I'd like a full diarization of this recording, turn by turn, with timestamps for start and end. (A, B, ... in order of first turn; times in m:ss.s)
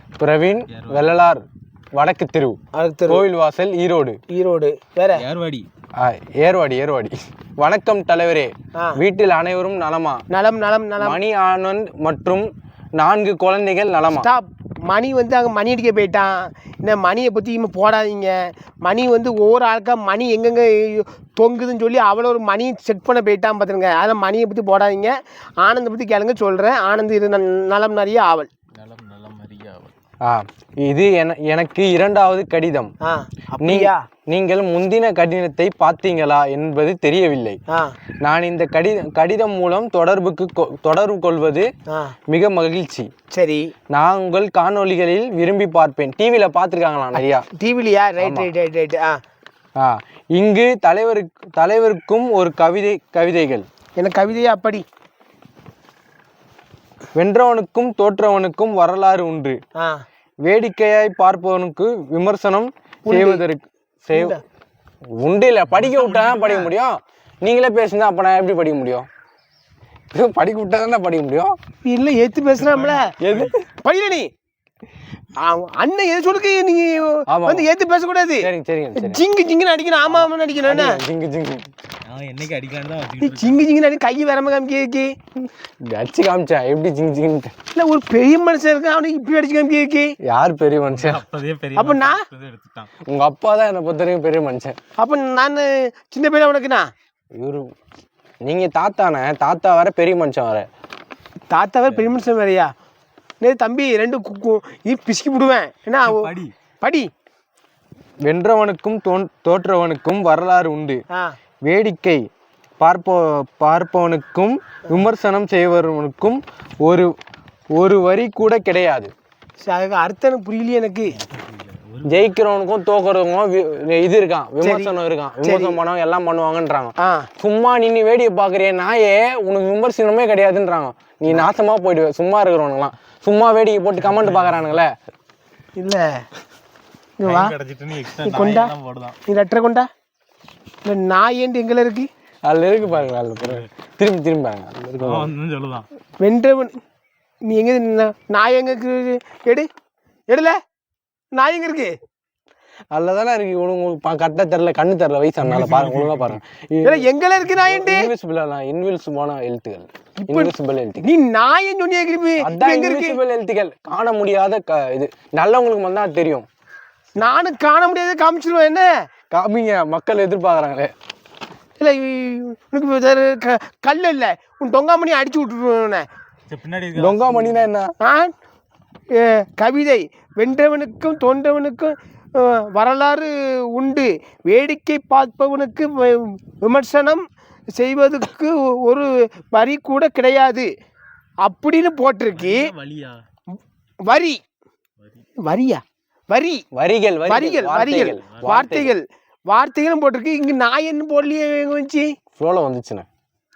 0:00.2-0:04.2 A
0:00.7-0:01.1 B
0:02.7-0:03.2 C
0:04.3-0:05.2 C
0:05.2-0:05.7 B
0:06.0-0:10.2 A
0:10.3-0:11.2 C
0:11.0-0:14.3 A
0:14.1-0:28.5 C
0:28.7-0:29.9 B
0:30.2-0:32.9 A
0:33.0-0:34.0 C
0:33.6-0:37.6 A
0:37.7-0:37.9 C
0:38.2-0:41.7 A
0:41.9-0:42.2 C
0:42.3-0:43.1 A
0:43.3-0:43.7 C
0:43.9-0:47.4 A
0:47.5-0:49.2 C
0:48.2-0:48.5 A
0:49.8-0:53.7 A
0:54.0-0:54.8 C
0:57.1-0:59.6 A
0:59.8-1:00.0 C
1:00.4-1:04.4 A
1:03.1-1:03.4 C
1:04.1-1:04.4 C
1:05.1-1:09.1 A
1:05.7-1:06.7 B
1:10.1-1:11.6 A
1:11.8-1:13.1 C
1:12.6-1:13.6 B
1:13.2-1:13.6 A
1:13.8-1:14.3 C
1:15.4-1:21.0 C
1:17.3-1:17.7 A
1:18.4-1:19.2 A
1:20.1-1:21.7 A
1:22.1-1:23.6 B
1:23.2-1:25.1 C
1:25.4-1:27.5 A
1:27.7-1:30.1 C
1:30.2-1:31.2 A
1:30.9-1:32.9 B
1:31.8-1:32.2 C
1:33.0-1:34.8 A
1:35.0-1:36.9 C
1:37.3-1:37.7 A
1:38.4-1:40.7 A
1:41.5-1:42.7 C
1:43.4-1:46.3 C
1:46.0-1:46.5 B
1:46.8-1:47.1 C
1:48.2-1:51.0 A
1:51.6-1:52.3 A
1:52.8-1:57.1 A
1:57.7-1:59.1 A
1:59.6-2:01.2 C
2:01.1-2:02.3 B
2:02.0-2:14.9 A
2:04.6-2:05.8 C
2:07.0-2:07.3 C
2:14.0-2:14.7 B
2:15.8-2:16.2 C
2:17.2-2:17.5 C
2:17.2-2:19.2 B
2:18.2-2:18.7 C
2:19.3-2:19.9 C
2:20.8-2:22.1 C
2:22.4-2:25.3 A
2:22.8-2:23.7 B
2:25.0-2:25.8 B
2:26.2-2:26.8 C
2:27.4-2:29.7 C
2:30.3-2:30.6 C
2:31.4-2:31.9 C
2:32.9-2:41.0 A
2:35.4-2:36.4 B
2:36.8-2:38.1 C
2:40.2-2:43.2 C
2:42.4-2:46.4 A
2:47.2-2:49.0 C
2:49.3-2:50.9 A
2:51.8-2:56.1 C
2:56.5-2:57.6 B
2:57.0-2:57.9 A
2:58.0-2:58.3 C
2:59.1-3:07.2 C
3:07.8-3:10.7 C
3:11.4-3:12.7 C
3:12.3-3:13.2 B
3:14.0-3:14.4 C
3:15.0-3:15.2 B
3:15.4-3:16.6 C
3:16.7-3:19.0 A
3:17.3-3:22.1 C
3:17.8-3:18.6 B
3:22.4-3:23.1 A